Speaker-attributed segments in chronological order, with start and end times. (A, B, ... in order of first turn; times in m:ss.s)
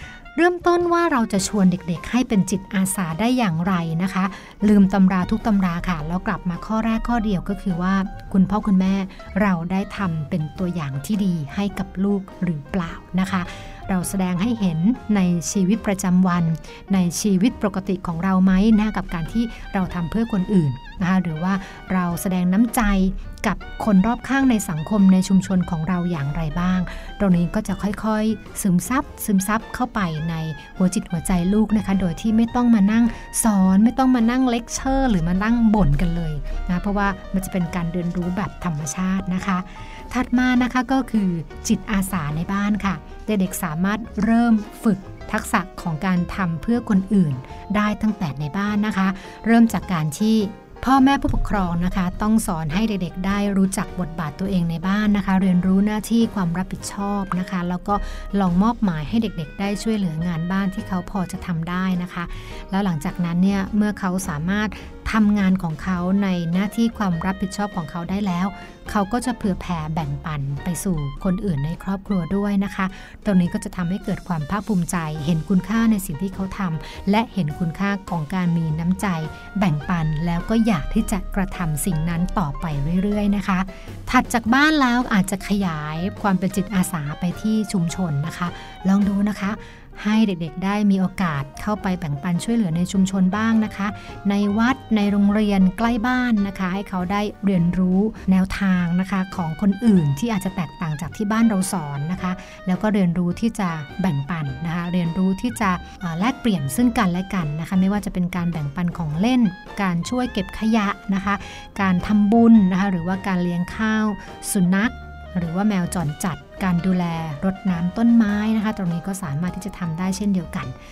0:00.3-2:00.7 A